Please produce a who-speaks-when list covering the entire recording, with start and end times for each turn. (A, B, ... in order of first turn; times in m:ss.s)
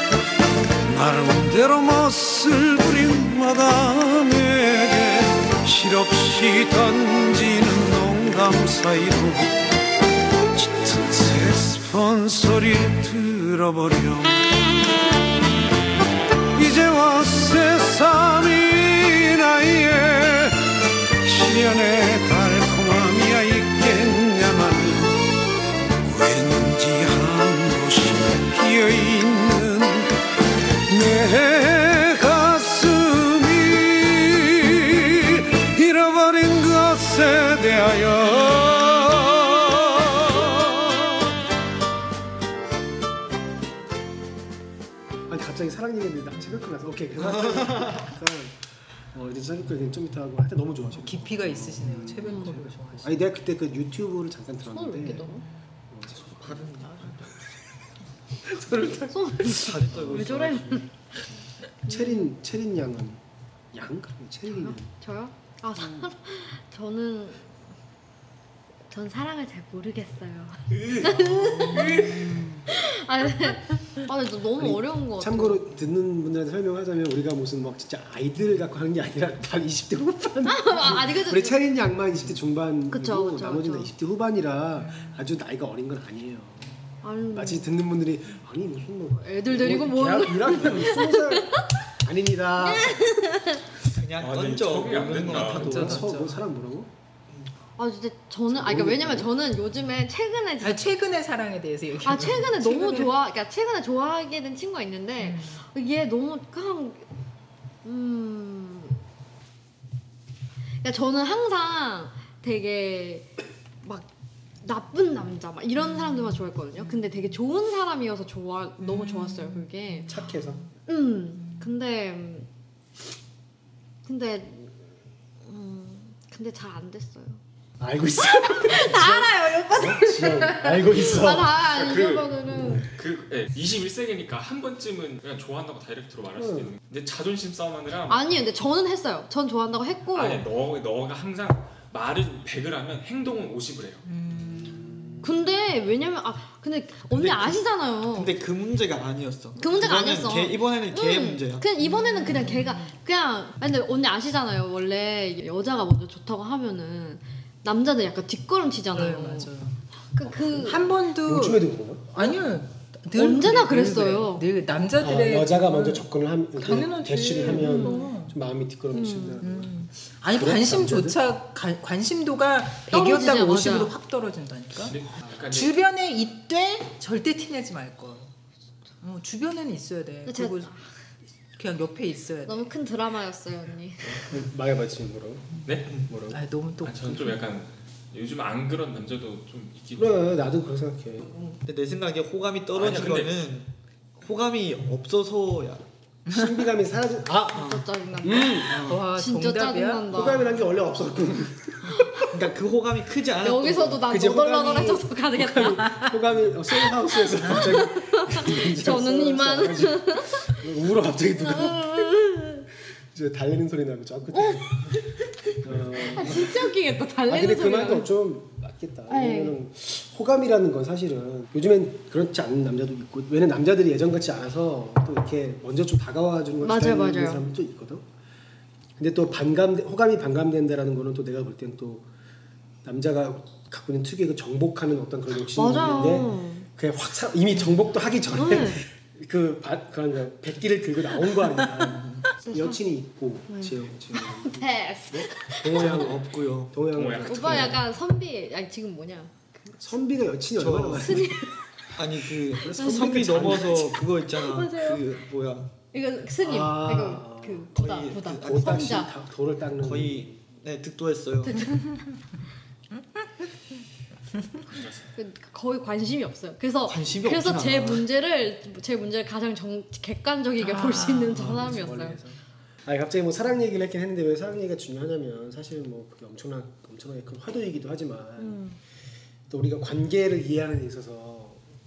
0:00.8-0:09.6 A
0:10.5-0:14.5 A
0:16.5-0:25.2 A
0:26.0-0:30.2 A
0:30.9-0:41.1 A
0:45.3-0:56.9 B
0:47.3-0:48.0 C
0:50.9-0:53.2 D
0:52.2-0:52.5 E
0:54.7-0:55.4 E
0:55.4-0:55.7 D
0:56.1-0:57.4 C
0:58.4-1:00.2 B
0:59.1-1:00.9 E
0:59.5-1:00.9 C
1:01.8-1:02.3 E
1:01.8-1:04.9 B
1:04.5-1:07.6 E
1:05.8-1:06.1 B
1:08.9-1:15.6 E
1:10.8-1:12.5 C
1:14.6-1:26.8 B
1:20.5-1:21.6 E
1:22.9-1:23.9 E
1:24.8-1:25.2 D
1:27.0-1:27.7 E
1:27.3-1:33.2 B
1:29.2-1:31.6 E
1:32.6-1:33.6 E
1:33.8-1:36.1 C
1:34.2-1:36.0 F
1:35.3-1:36.9 B
1:35.5-1:36.4 D
1:37.8-1:40.8 E
1:38.5-1:39.3 B
1:40.6-1:43.1 D
1:42.0-1:47.0 E
1:45.2-1:45.6 D
1:47.8-1:49.0 E
1:50.8-1:54.1 E
1:54.6-2:00.2 E
1:55.8-1:57.4 D
1:58.8-2:00.7 D
2:00.1-2:00.7 B
2:00.9-2:02.5 E
2:01.4-2:01.7 D
2:04.0-2:04.7 E
2:05.4-2:07.4 E
2:07.8-2:11.7 B
2:08.2-2:12.9 E
2:11.6-2:18.2 F
2:12.5-2:12.8 B
2:16.3-2:16.7 B
2:18.1-2:20.4 E
2:20.1-2:24.0 F
2:24.0-2:24.9 D
2:24.4-2:25.3 B
2:25.2-2:28.3 E
2:27.1-2:27.6 C
2:28.1-2:31.7 C
2:29.6-2:39.5 E
2:31.8-2:32.9 D
2:38.9-2:39.8 D
2:40.1-2:40.8 E
2:40.2-2:42.3 B
2:40.6-2:48.4 D
2:43.1-2:44.4 E
2:45.0-2:49.7 B
2:47.4-2:48.1 E
2:48.9-2:49.4 E
2:49.4-2:58.3 D
2:50.3-2:51.2 B
2:52.9-2:53.9 E
2:54.8-2:55.8 F
2:59.0-3:00.7 D
3:00.2-3:00.8 E
3:01.6-3:02.7 D
3:02.4-3:04.3 E
3:04.2-3:06.4 B
3:05.6-3:06.0 F
3:06.3-3:07.4 D
3:06.8-3:10.4 F
3:10.0-3:11.5 B
3:11.6-3:15.8 C
3:12.7-3:13.4 F
3:16.3-3:17.7 B
3:17.5-3:20.5 E
3:17.5-3:17.8 C
3:18.2-3:18.8 B
3:18.6-3:19.0 C
3:18.8-3:20.3 D
3:20.1-3:22.5 B
3:22.3-3:24.1 C
3:23.4-3:26.1 E
3:24.0-3:32.1 B
3:26.8-3:30.6 E
3:31.4-3:32.7 E
3:33.1-3:35.0 B
3:34.3-3:38.1 E
3:35.6-3:36.7 B
3:37.3-3:48.1 B
3:39.1-3:39.6 E
3:46.6-3:47.4 E
3:49.0-3:52.1 B
3:52.8-4:07.8 B
3:55.5-3:56.7 E
3:58.3-3:58.8 E
4:02.4-4:02.8 E
4:03.5-4:06.0 E
4:05.7-4:06.8 C
4:06.9-4:07.8 F
4:07.2-4:09.8 E
4:09.7-4:11.5 B
4:10.6-4:11.3 C
4:11.0-4:11.5 E
4:11.9-4:15.7 C
4:12.5-4:14.0 B
4:12.7-4:13.6 E
4:14.3-4:15.0 E
4:15.9-4:19.1 E
4:16.4-4:17.7 B
4:17.7-4:18.8 C
4:18.3-4:20.4 B
4:19.8-4:21.7 C
4:24.6-4:25.1 F
4:25.2-4:32.2 E
4:26.8-4:28.0 C
4:30.6-4:32.3 D
4:31.4-4:31.7 C
4:31.7-4:32.2 B
4:32.8-4:38.6 B
4:38.4-4:38.8 E
4:39.5-4:41.6 B